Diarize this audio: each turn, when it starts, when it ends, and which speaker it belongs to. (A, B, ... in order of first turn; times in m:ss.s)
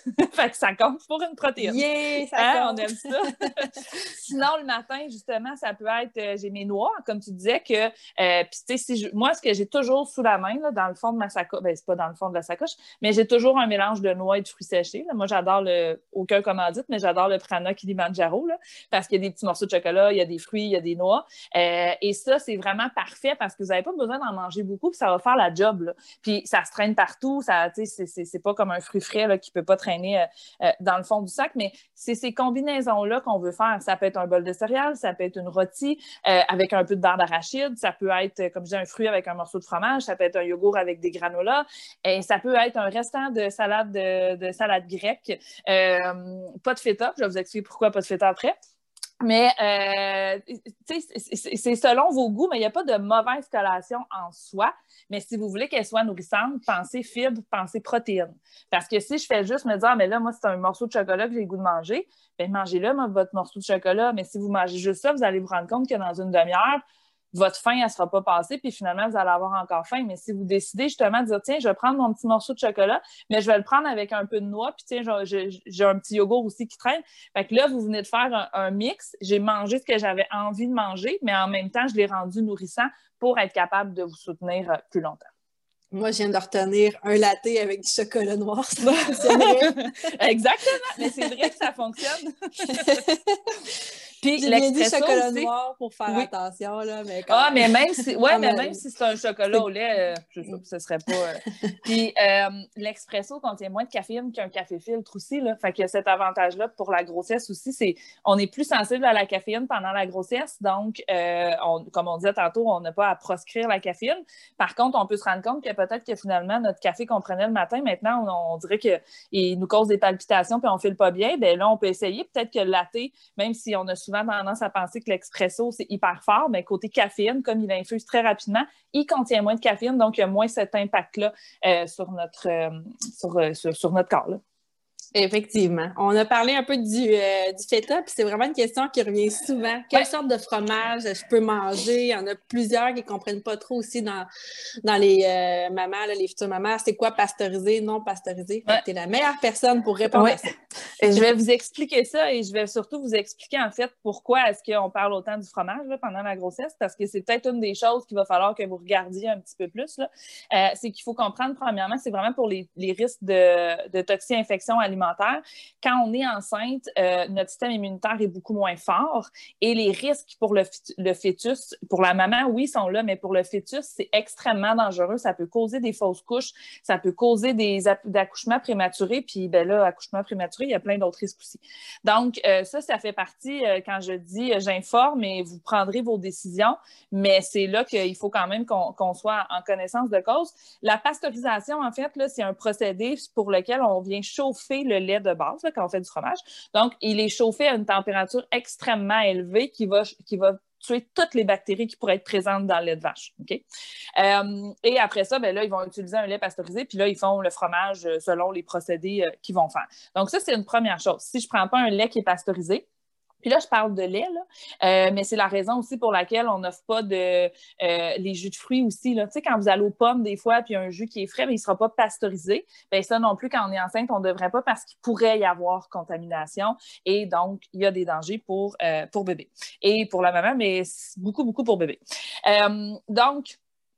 0:00.2-0:01.8 A
0:01.6-0:02.9 B
0:02.4-0:48.5 A
0:49.2-1:25.3 A
1:25.9-1:30.1 B
1:28.8-1:33.1 A
1:32.7-1:33.4 B
1:34.2-1:35.5 A
1:34.4-1:37.7 B
1:37.3-2:14.4 A
1:38.2-1:38.8 B
2:15.1-2:24.3 B
2:24.8-2:31.3 B
2:30.1-2:30.4 A
2:31.0-3:23.6 A
3:24.2-3:32.8 A
3:33.4-3:53.6 A